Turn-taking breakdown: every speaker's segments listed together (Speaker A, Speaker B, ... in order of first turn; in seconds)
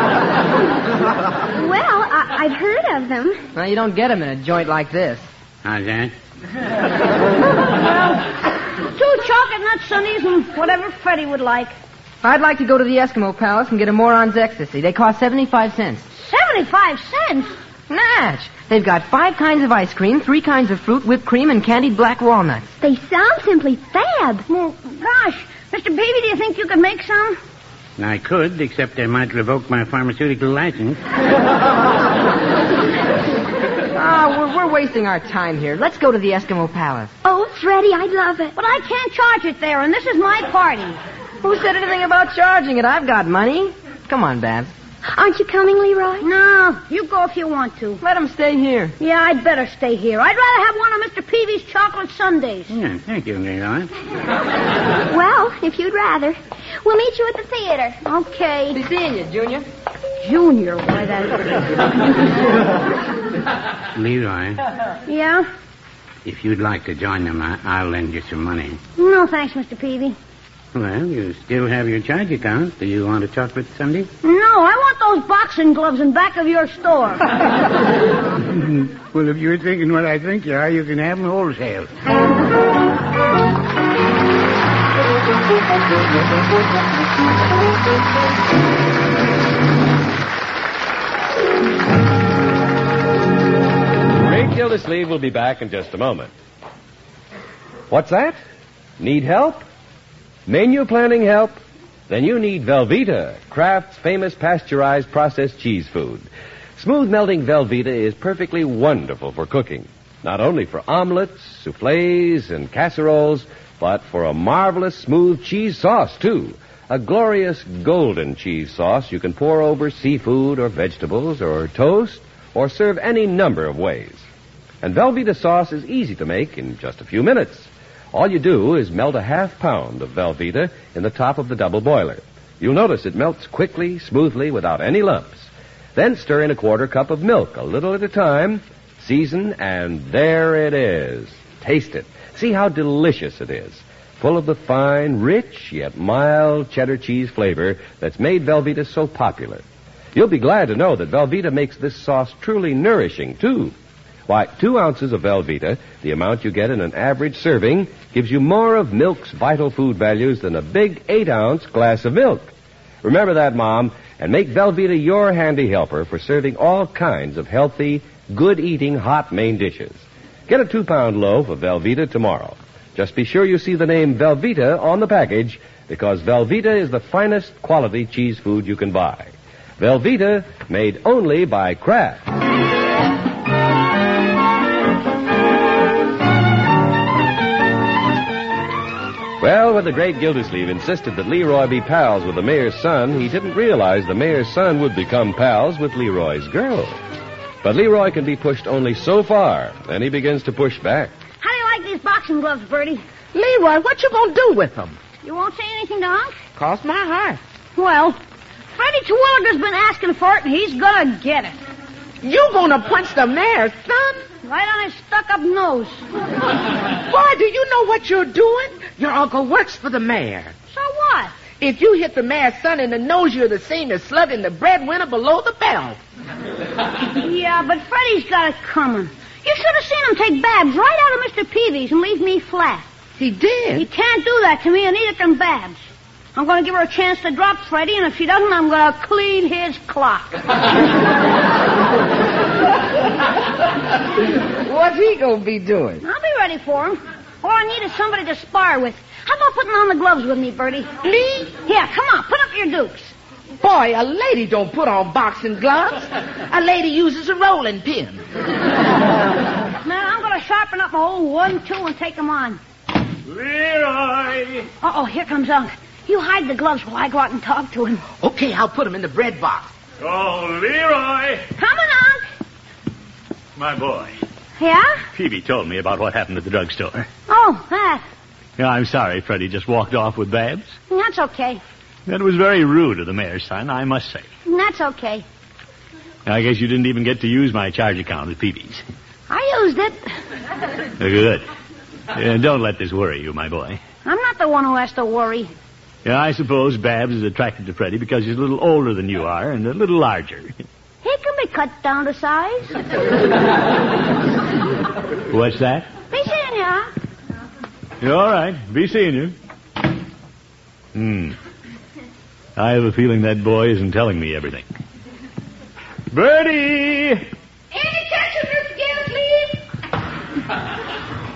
Speaker A: 1.5-3.4, 22.8-24.4, 37.2-38.5, 45.1-46.3, 55.0-58.0
Speaker B: 3.5-5.3, 12.2-16.1, 17.9-22.7, 33.9-37.1, 41.4-44.7, 48.0-48.9, 58.7-59.6
Speaker C: 5.6-6.1, 28.0-31.0, 52.7-53.9, 63.9-64.6, 66.2-68.8, 70.7-74.1, 78.4-81.9
Speaker D: 7.8-8.2, 8.9-11.7, 16.1-17.5, 24.5-27.4, 38.5-41.0, 46.2-48.0, 49.0-52.7, 58.0-58.8, 60.2-61.5, 65.1-65.5, 69.0-70.2, 74.2-77.3, 201.4-203.0, 205.2-206.3, 207.8-208.2, 208.8-211.6, 214.4-216.0, 220.7-221.3, 227.2-232.8, 233.7-235.8, 236.3-240.4, 246.0-250.9, 251.6-253.1, 259.8-262.6, 264.8-268.0, 271.6-272.2, 274.6-275.0, 277.3-278.0, 280.9-281.6, 284.4-285.2, 289.3-290.1, 294.0-295.5, 301.0-302.7, 306.1-306.9
Speaker E: 94.1-96.3, 97.9-98.4, 99.0-99.6, 100.5-124.2, 124.8-149.6, 150.1-153.7, 154.3-162.5, 163.0-182.2, 189.4-196.9, 197.6-201.1
Speaker F: 203.3-205.0, 206.6-207.4, 212.2-214.2, 217.1-220.5, 221.6-226.0, 233.2-233.8, 244.6-246.0, 251.0-251.5, 253.6-258.2, 268.2-269.7, 317.7-319.6
Speaker G: 263.2-264.7, 270.0-271.4, 273.6-274.2, 275.1-277.1, 278.6-280.7, 282.1-284.3, 286.2-288.8, 291.0-291.4, 292.1-293.8, 296.0-300.6, 305.3-305.9, 308.0-309.3, 310.9-311.4, 312.6-314.7, 316.1-317.2